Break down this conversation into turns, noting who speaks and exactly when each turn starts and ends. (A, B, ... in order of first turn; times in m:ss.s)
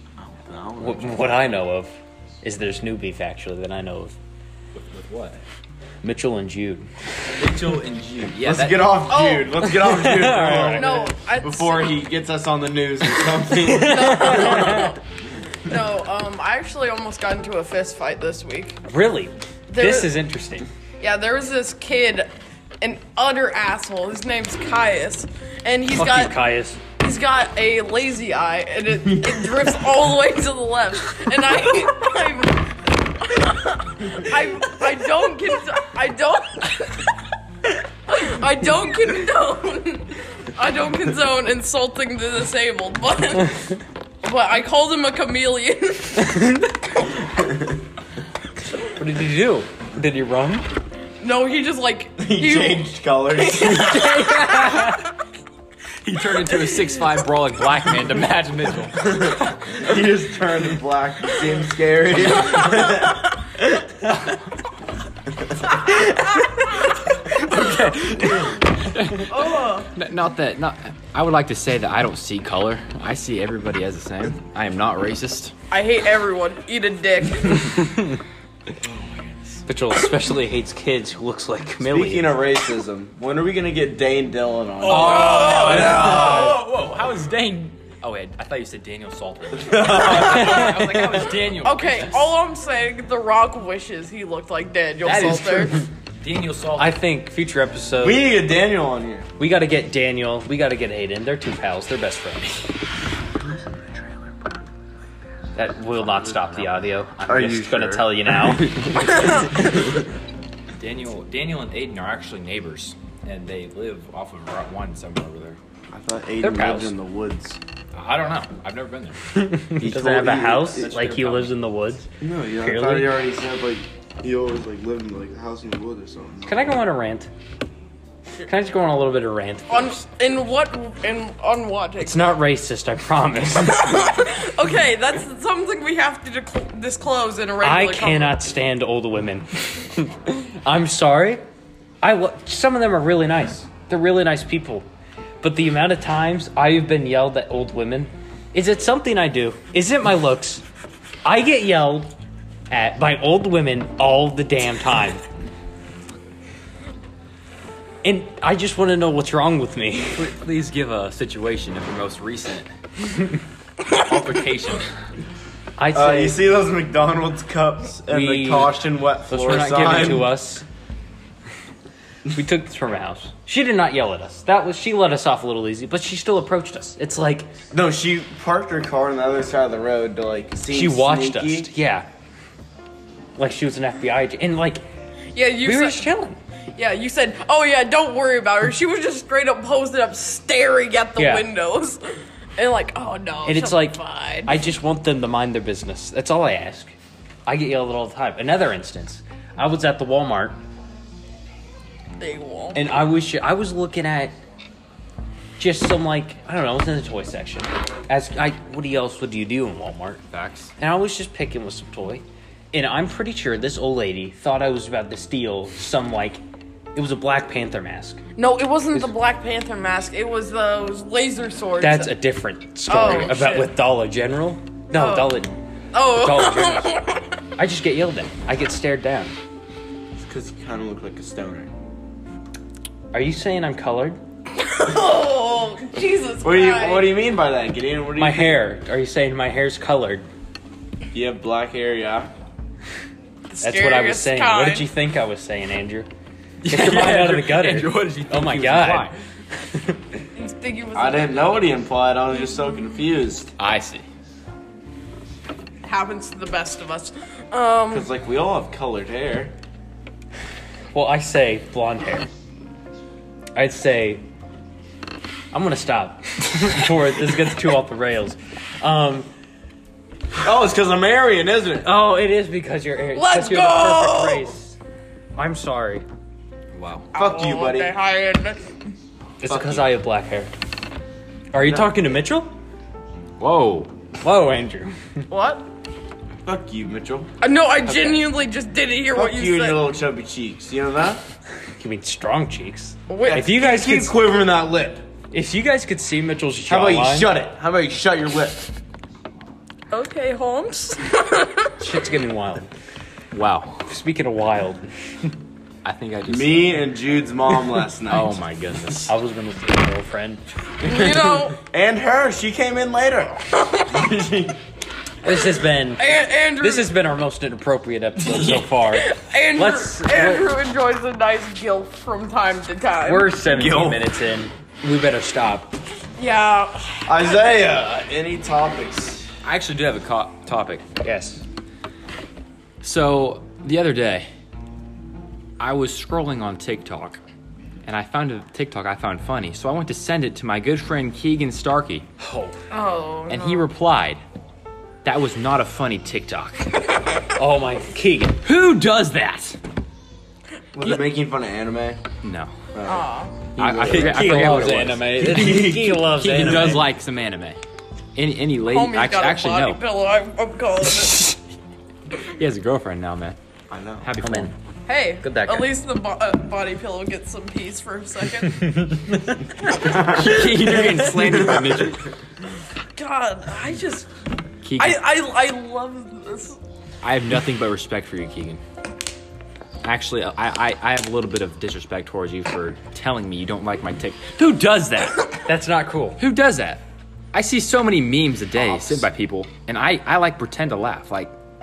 0:00.2-0:01.5 A
0:00.8-0:04.2 B
0:04.7-0:05.4 C
0:06.0-0:06.9 B
0:07.4-0:09.0 C
0:08.4-0:14.8 A
0:09.1-0:09.6 D
0:09.6-0:11.1 B
0:10.6-0:12.0 D
0:13.5-0:15.0 B
0:13.6-0:15.0 D
0:15.6-0:18.8 D
0:18.8-0:20.7 B
0:19.7-0:20.2 D
0:21.0-0:22.3 D
0:22.8-0:26.4 D
0:26.0-0:26.8 B
0:27.0-0:37.1 D
0:29.1-0:29.6 A
0:38.1-0:43.6 D
0:44.2-0:46.5 D
0:47.2-0:47.8 A
0:48.9-0:50.6 B
0:51.2-0:52.9 D
0:52.2-0:54.1 A
0:53.5-0:54.9 D
0:53.6-0:55.0 B
0:56.0-0:59.2 C
0:59.0-1:03.9 A
1:05.5-1:06.0 A
1:07.5-1:15.5 C
1:09.3-1:09.9 D
1:15.7-1:17.8 D
1:17.8-1:18.2 B
1:18.8-1:19.6 C
1:19.7-1:22.4 B
1:21.8-1:26.6 A
1:24.8-1:32.4 C
1:24.8-1:26.6 D
1:25.9-1:26.5 B
1:29.6-1:30.8 A
1:30.1-1:30.7 B
1:31.5-1:35.7 D
1:35.0-1:36.9 C
1:36.8-1:38.3 B
1:38.0-1:39.3 A
1:39.4-1:42.7 B
1:45.6-1:49.3 B
1:46.0-1:46.7 C
1:47.3-1:49.7 A
1:50.8-1:55.6 C
1:55.9-1:57.6 A
1:56.4-1:57.0 B
1:57.9-1:59.2 C
1:59.3-2:02.1 B
1:59.8-2:00.9 A
2:00.7-2:01.6 C
2:02.2-2:06.7 A
2:02.6-2:03.2 B
2:06.5-2:07.3 B
2:08.5-2:10.0 B
2:09.7-2:12.3 D
2:12.0-2:14.2 B
2:13.8-2:18.4 D
2:17.6-2:21.4 B
2:22.0-2:24.9 B
2:25.4-2:30.6 B
2:31.2-2:32.1 B
2:32.7-2:35.2 B
2:38.0-2:40.3 B
2:40.2-2:42.7 C
2:43.9-2:44.9 C
2:45.8-2:46.4 B
2:45.9-2:50.3 A
2:48.1-2:50.6 B
2:49.8-2:50.0 C
2:52.3-2:57.5 B
2:57.7-3:01.7 A
3:00.7-3:02.1 B
3:03.4-3:04.8 B
3:05.3-3:06.1 D
3:05.6-3:06.4 B
3:06.8-3:14.6 D
3:11.2-3:11.5 B
3:13.4-3:17.0 B
3:17.5-3:20.6 B
3:22.2-3:22.8 D
3:22.7-3:24.4 B
3:25.6-3:30.2 B
3:30.3-3:30.7 C
3:30.8-3:36.4 B
3:36.9-3:38.2 B
3:38.4-3:42.1 D
3:41.8-3:45.5 B
3:42.9-3:43.7 D
3:44.9-3:45.4 D
3:45.9-3:47.2 D
3:46.1-3:47.0 B
3:47.6-3:49.4 B
3:50.2-3:51.7 A
3:53.1-3:54.2 B
3:54.6-3:57.1 D
3:56.4-3:58.6 A
3:58.2-4:00.3 B
4:01.1-4:02.3 A
4:03.5-4:04.9 D
4:03.6-4:06.1 B
4:06.6-4:09.2 C
4:06.7-4:10.2 B
4:10.4-4:11.7 D
4:10.9-4:13.5 A
4:13.6-4:14.0 C
4:15.8-4:18.1 D
4:17.9-4:19.5 A
4:20.9-4:22.3 B
4:23.6-4:24.2 B
4:25.5-4:29.3 B
4:30.4-4:31.9 A
4:31.8-4:34.8 B
4:33.1-4:34.6 D
4:35.4-4:36.0 B
4:36.7-4:37.1 C
4:37.1-4:37.9 A
4:37.1-4:38.6 D
4:39.4-4:40.5 B
4:39.5-4:39.8 A
4:41.5-4:42.5 B
4:41.6-4:41.9 A
4:43.4-4:43.9 C
4:44.2-4:45.0 B
4:45.3-4:45.6 D
4:46.4-4:47.3 A
4:47.4-4:49.8 D
4:47.9-4:48.3 B
4:49.1-4:51.2 A
4:51.8-4:54.2 B
4:53.1-4:53.5 D
4:53.2-4:55.1 A
4:55.3-4:57.3 B
4:56.7-4:58.7 A
4:59.9-5:01.7 D
5:01.8-5:02.7 B
5:03.3-5:03.9 C
5:03.9-5:05.3 B
5:05.8-5:06.8 C
5:06.3-5:08.4 A
5:08.1-5:09.1 C
5:09.1-5:11.4 B
5:10.8-5:11.6 D
5:11.6-5:14.6 A
5:15.2-5:20.5 B
5:16.0-5:16.9 D
5:18.8-5:23.3 D
5:23.0-5:25.8 B
5:23.4-5:24.1 A
5:26.2-5:27.6 D
5:27.1-5:29.3 A
5:29.4-5:30.8 C
5:31.0-5:31.4 B
5:32.8-5:34.3 C
5:35.6-5:37.2 C
5:37.8-5:42.1 C
5:42.2-5:42.6 B
5:42.7-5:43.7 D
5:43.3-5:44.2 C
5:45.0-5:46.6 C
5:47.4-5:48.4 B
5:48.4-5:49.6 C
5:50.7-5:52.0 A
5:52.2-5:52.5 C
5:52.7-5:56.1 A
5:52.9-5:53.4 D
5:53.6-5:56.9 B
5:53.6-5:57.6 C
5:58.2-5:59.8 C
5:58.6-6:01.3 D
6:00.8-6:01.4 C
6:02.2-6:03.4 C
6:03.7-6:04.1 A
6:04.0-6:04.5 C
6:04.2-6:04.5 B
6:04.9-6:08.8 D
6:05.2-6:05.8 B
6:08.8-6:09.2 B
6:09.8-6:12.1 C
6:09.8-6:11.8 A
6:13.0-6:14.1 D
6:14.6-6:15.1 C
6:14.8-6:16.6 D
6:17.0-6:18.6 C
6:19.8-6:25.5 C
6:25.4-6:26.2 B
6:26.2-6:31.3 C
6:28.6-6:29.1 A